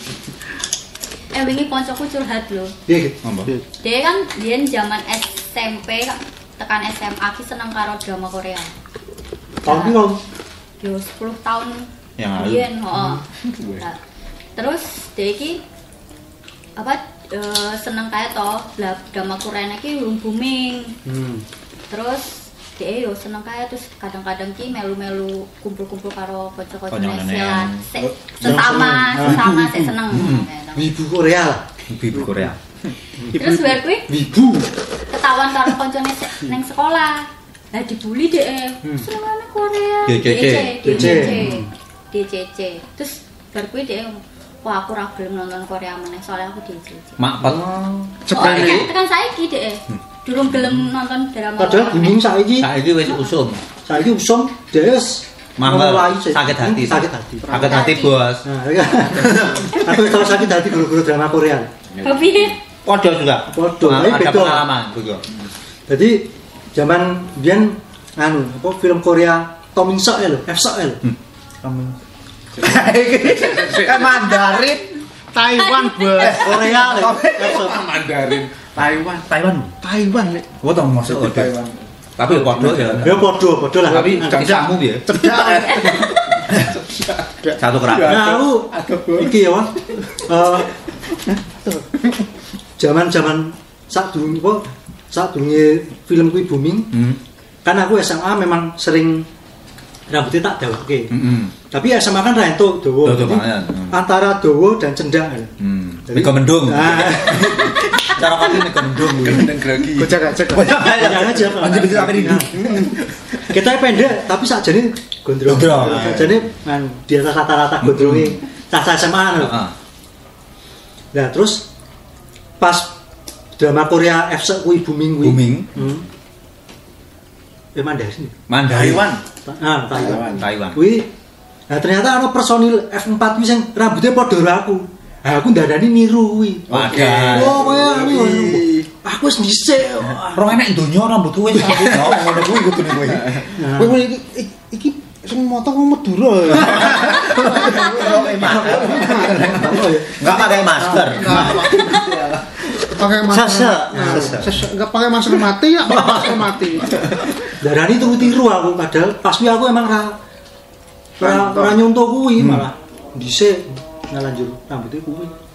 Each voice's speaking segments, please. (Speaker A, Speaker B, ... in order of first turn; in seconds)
Speaker A: 1.3-2.7, 3.8-8.7, 9.6-10.1, 10.8-11.9, 12.4-13.2, 14.6-15.6, 16.8-20.9, 21.9-30.8, 33.3-34.1, 35.1-47.2, 48.3-52.2, 57.6-58.3, 62.0-62.6, 75.6-76.8
Speaker B: 2.9-3.2, 9.6-10.2, 21.1-21.4, 28.4-30.2, 30.8-31.6, 34.1-34.7, 40.8-41.6, 51.6-52.7, 53.8-57.6, 58.4-61.7, 63.5-64.7, 65.9-71.1, 76.5-77.1, 83.0-84.5, 88.0-90.7, 92.8-97.0, 97.6-99.3, 100.1-105.5, 106.1-107.8, 110.8-112.8, 113.4-119.6, 121.1-121.7, 122.6-123.0, 123.6-126.1, 127.7-128.3, 129.4-131.1, 131.7-140.6, 143.6-144.0, 148.4-150.2, 150.9-151.4, 154.0-154.3, 157.5-160.2, 161.2-165.3
Speaker C: 3.2-3.5, 12.2-12.7, 26.9-27.9, 30.1-30.5, 31.9-32.6, 40.1-41.6, 47.2-48.9, 49.9-50.9, 52.6-53.6, 55.6-58.5, 62.8-65.2, 71.6-72.0, 72.6-74.9, 76.2-77.9, 78.8-79.8, 80.6-81.5, 82.2-83.3, 83.8-85.6, 87.6-88.3, 96.9-97.2, 101.1-101.5, 103.0-104.0, 105.6-109.6, 110.5-112.9, 115.5-116.5, 117.8-118.4, 119.4-119.7, 125.2-125.7, 128.5-129.2, 130.3-130.9, 136.7-137.7, 140.1-143.5, 146.5-151.8, 153.2-154.6, 155.9-156.3, 161.4-161.7, 162.4-162.7
Speaker D: 13.5-13.8, 61.9-62.5, 72.6-74.0, 77.2-79.2, 81.0-83.2, 85.2-87.3, 87.8-89.3, 109.1-110.3, 128.7-129.2, 130.0-130.4, 136.7-138.9, 151.6-152.4
Speaker E: 33.4-33.8, 48.2-48.9, 57.5-58.0, 75.3-77.2, 79.8-80.5, 83.9-86.1, 91.4-91.9, 109.9-110.7, 112.6-112.9, 141.8-142.3, 143.6-149.7, 150.9-152.2, 152.8-157.0